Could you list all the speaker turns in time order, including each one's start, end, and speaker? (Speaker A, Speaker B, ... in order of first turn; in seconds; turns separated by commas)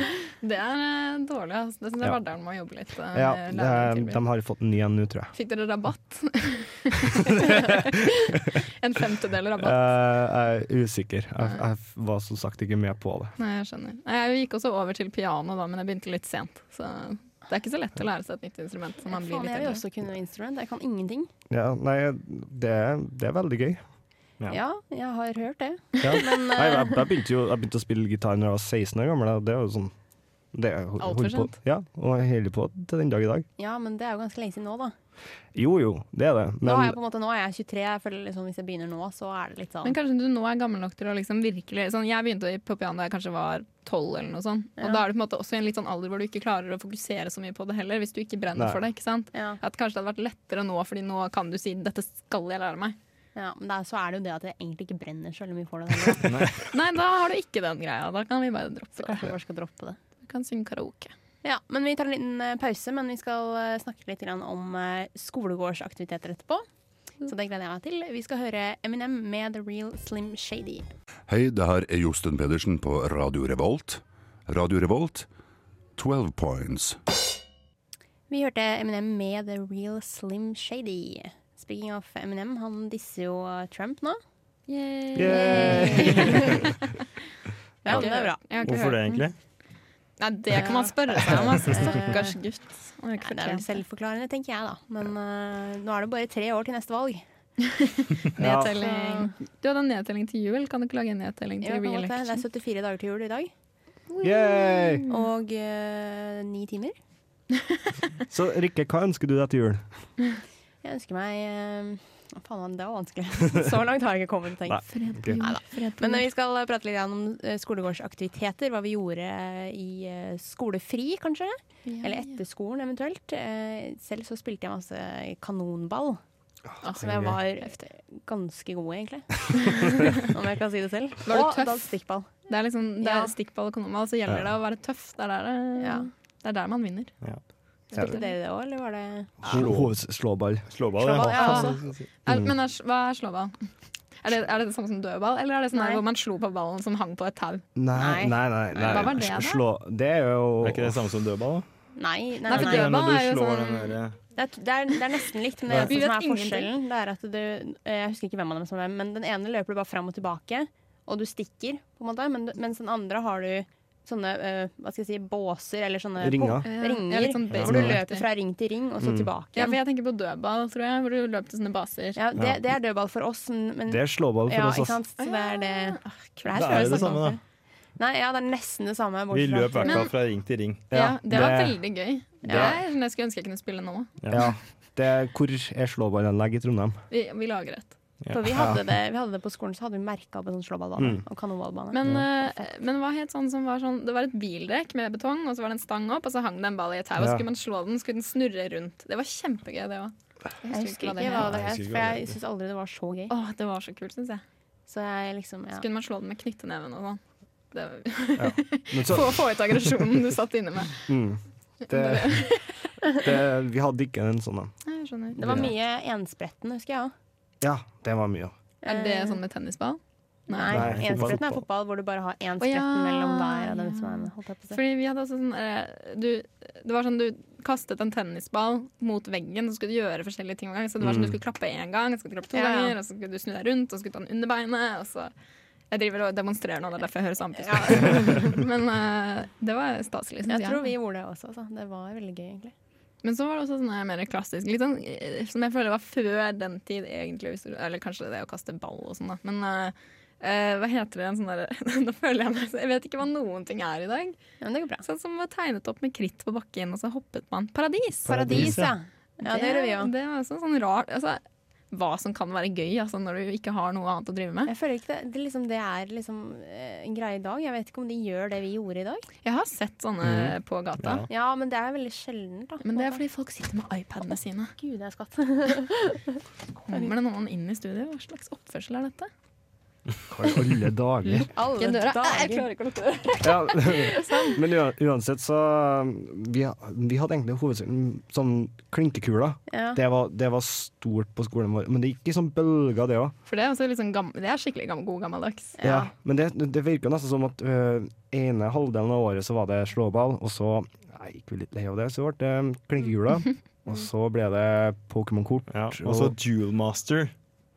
Speaker A: 0.4-4.2, Speaker B: 3.1-5.3, Speaker A: 5.3-9.9, Speaker B: 7.4-7.8, Speaker B: 9.6-13.3, Speaker A: 13.4-19.8, Speaker C: 19.1-21.3, Speaker B: 21.5-23.8, Speaker C: 24.5-27.1, Speaker B: 26.0-29.9, Speaker B: 30.5-33.5, Speaker A: 31.0-31.6, Speaker C: 33.6-34.9, Speaker B: 35.5-37.0, Speaker C: 36.6-40.0, Speaker A: 39.8-53.0, Speaker B: 48.5-48.8, Speaker C: 49.3-49.6, Speaker C: 53.4-56.3, Speaker D: 56.2-56.6, Speaker A: 56.7-59.3, Speaker C: 59.0-60.0, Speaker A: 60.2-61.1, Speaker C: 61.4-66.7, Speaker C: 67.2-70.9, Speaker E: 71.3-75.3, Speaker E: 76.0-77.0, Speaker C: 78.3-84.2, Speaker A: 84.7-86.7, Speaker B: 85.2-86.6, Speaker C: 85.2-86.7, Speaker C: 87.8-88.4, Speaker A: 87.9-89.3, Speaker D: 88.6-89.3, Speaker A: 90.2-93.7, Speaker C: 90.5-92.4, Speaker C: 93.2-97.2, Speaker A: 97.7-102.5, Speaker B: 98.4-98.8, Speaker C: 98.4-99.3, Speaker C: 101.6-103.5, Speaker A: 104.1-105.2, Speaker B: 104.2-105.1, Speaker C: 105.1-107.0, Speaker B: 108.3-109.8, Speaker C: 110.8-114.8, Speaker B: 114.7-115.4, Speaker A: 114.9-116.3, Speaker C: 115.4-126.2, Speaker A: 121.9-122.3, Speaker B: 126.7-127.4, Speaker A: 126.8-127.9, Speaker C: 127.0-132.3, Speaker A: 129.6-130.2, Speaker A: 131.3-131.9, Speaker A: 132.5-137.1, Speaker C: 133.0-133.3, Speaker C: 135.8-136.1, Speaker A: 137.9-138.3, Speaker C: 137.9-139.7, Speaker D: 139.4-139.9, Speaker B: 139.4-141.4, Speaker D: 140.7-142.1, Speaker C: 141.0-141.8, Speaker A: 141.3-143.7, Speaker A: 144.2-147.6, Speaker C: 145.7-146.0, Speaker B: 147.8-151.0, Speaker C: 147.9-149.2, Speaker A: 148.8-149.6, Speaker D: 150.6-151.7, Speaker C: 152.0-152.9, Speaker A: 152.5-154.0, Speaker D: 152.5-154.2, Speaker C: 154.3-169.8, Speaker A: 155.8-156.7, Speaker B: 166.2-166.7, Speaker A: 166.6-168.3, Speaker D: 167.5-168.0, Speaker D: 169.0-169.3, Speaker A: 169.6-172.2, Speaker C: 172.2-177.4, Speaker B: 173.9-175.0, Speaker A: 175.2-177.0, Speaker D: 176.6-177.4, Speaker C: 178.0-180.1, Speaker D: 179.3-180.8, Speaker A: 179.8-180.1, Speaker B: 180.9-181.8, Speaker A: 180.9-184.1, Speaker B: 182.4-182.8, Speaker C: 182.4-182.8, Speaker D: 184.2-184.5, Speaker B: 184.3-187.0, Speaker A: 187.1-187.9, Speaker D: 188.2-188.5, Speaker C: 188.3-192.2, Speaker B: 188.5-188.8, Speaker B: 191.0-191.2, Speaker A: 191.9-201.6, Speaker B: 197.2-197.4, Speaker C: 200.7-203.3, Speaker D: 201.3-202.3, Speaker A: 203.3-204.4, Speaker C: 204.9-205.9, Speaker A: 205.7-207.2, Speaker A: 207.7-211.1, Speaker B: 208.4-209.9, Speaker B: 211.1-212.5, Speaker A: 211.9-212.8, Speaker B: 213.1-214.7, Speaker A: 214.8-215.7, Speaker C: 215.4-217.1, Speaker B: 215.4-215.7, Speaker B: 217.6-218.6, Speaker C: 218.8-219.4, Speaker A: 218.9-220.8, Speaker C: 220.5-224.8, Speaker D: 220.7-221.4, Speaker B: 220.7-221.6, Speaker A: 222.6-235.3, Speaker B: 231.0-231.4, Speaker C: 232.5-233.0, Speaker A: 235.9-240.9, Speaker C: 237.6-238.6, Speaker C: 240.5-242.7, Speaker A: 243.2-254.4, Speaker C: 254.6-255.1, Speaker A: 255.0-258.4, Speaker B: 258.3-258.8, Speaker C: 258.3-260.1, Speaker D: 258.5-258.9, Speaker A: 259.5-264.7, Speaker C: 264.6-269.2, Speaker A: 269.4-271.3, Speaker D: 270.2-271.3, Speaker C: 271.3-273.2, Speaker A: 272.8-274.8, Speaker C: 274.8-276.4, Speaker A: 276.9-279.3, Speaker B: 280.3-281.5, Speaker A: 281.2-284.6, Speaker C: 281.4-282.7, Speaker B: 283.4-293.3, Speaker C: 289.7-290.0, Speaker A: 293.5-295.8, Speaker C: 295.8-296.1, Speaker B: 295.8-306.4, Speaker D: 305.7-307.3